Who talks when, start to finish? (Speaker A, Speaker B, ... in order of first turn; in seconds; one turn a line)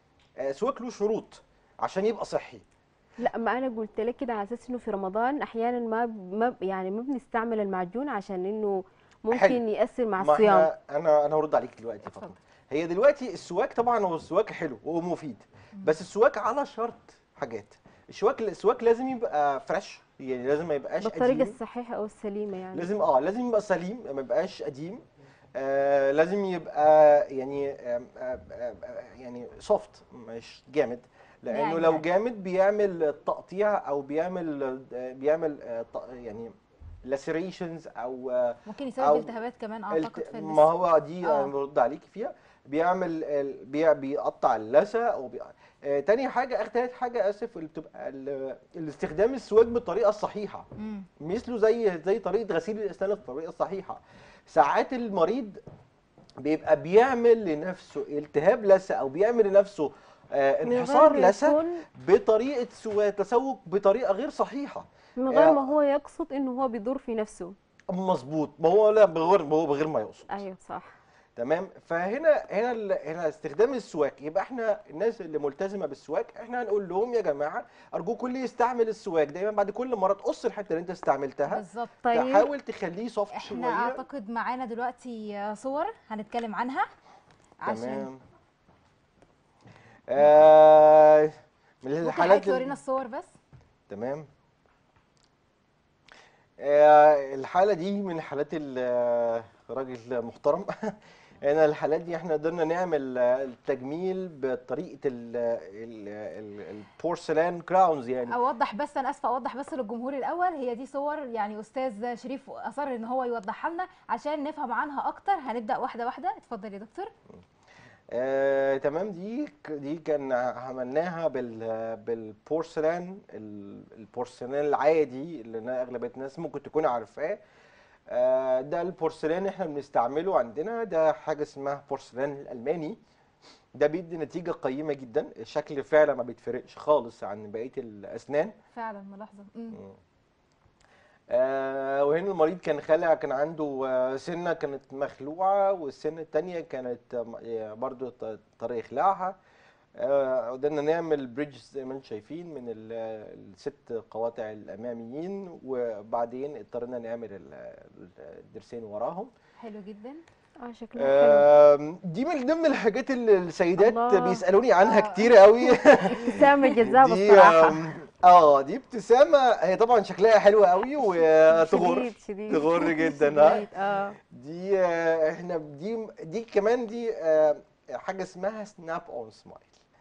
Speaker A: 0.4-2.6
Speaker B: 3.2-10.7
Speaker A: 9.3-9.6
Speaker A: 10.2-21.6
Speaker B: 21.0-22.9
Speaker A: 22.7-25.0
Speaker A: 25.6-36.5
Speaker C: 31.5-32.0
Speaker A: 37.0-39.3
Speaker C: 38.7-40.7
Speaker A: 39.9-50.7
Speaker C: 41.2-41.5
Speaker C: 50.8-51.1
Speaker A: 51.2-55.6
Speaker A: 56.4-65.7
Speaker B: 60.7-61.8
Speaker B: 65.2-67.5
Speaker A: 67.9-70.4
Speaker B: 70.3-71.0
Speaker A: 71.3-84.0
Speaker C: 81.5-82.0
Speaker B: 82.0-82.4
Speaker C: 83.3-86.9
Speaker C: 87.6-88.1
Speaker A: 87.7-88.2
Speaker A: 90.1-92.7
Speaker C: 92.0-93.3
Speaker A: 93.9-94.3
Speaker A: 96.6-108.4
Speaker C: 108.3-117.1
Speaker A: 118.1-127.4
Speaker A: 128.1-133.0
Speaker A: 133.7-138.5
Speaker C: 138.7-139.8
Speaker A: 141.3-149.4
Speaker A: 150.0-159.3
Speaker C: 159.6-160.2
Speaker B: 160.6-161.5
Speaker A: 160.9-173.7
Speaker B: 163.8-164.4
Speaker C: 164.8-166.8
Speaker B: 166.1-167.9
Speaker B: 171.1-174.2
Speaker A: 174.2-179.8